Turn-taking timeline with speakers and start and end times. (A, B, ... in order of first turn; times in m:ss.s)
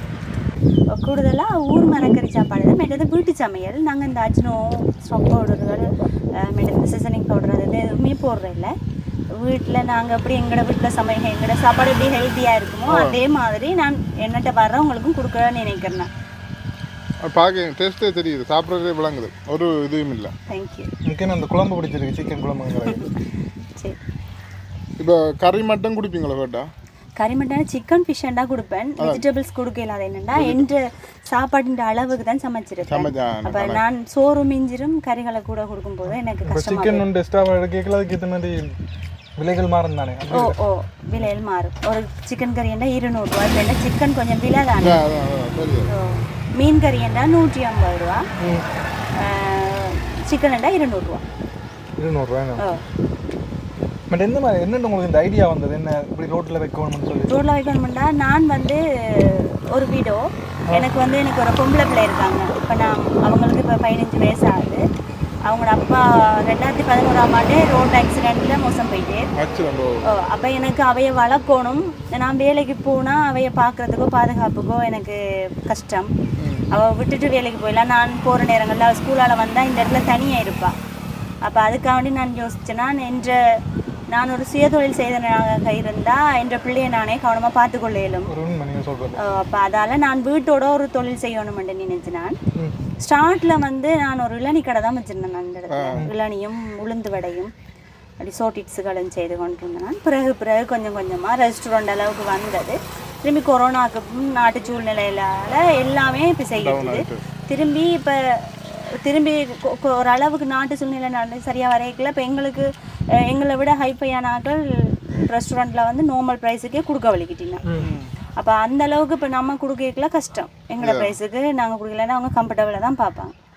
0:00.9-0:08.7 A
0:09.3-0:16.1 A
0:12.9-0:13.2 B
0:17.2-0:20.3 B
0:20.5-0:20.9 A
0:21.0-0:23.1 C
0:25.0-0:26.7 B
0:27.2-0:37.0 A
0:29.0-0:29.2 B
0:30.4-0:30.6 C
0:32.8-0:33.8 B
0:36.5-0:38.7 C
0:39.4-0:40.5 C
0:40.3-0:45.0 A
0:44.8-0:45.9 B
0:45.9-0:48.2 A
0:49.2-0:51.2 A
0:52.0-0:52.6 C
0:54.1-0:57.3 C
0:57.3-1:04.8 A
1:05.5-1:09.3 A
1:09.3-1:10.1 B
1:10.1-1:16.1 A
1:16.4-1:16.7 B
1:16.7-1:20.7 A
1:21.4-1:23.4 A
1:24.1-1:28.3 A
1:28.3-1:29.2 C
1:29.2-1:32.4 A
1:33.0-1:37.5 A
1:35.7-1:36.0 B
1:38.2-1:57.6 A
1:46.6-1:47.2 B
1:57.7-1:58.1 C
1:58.4-2:03.3 A
2:00.8-2:01.2 B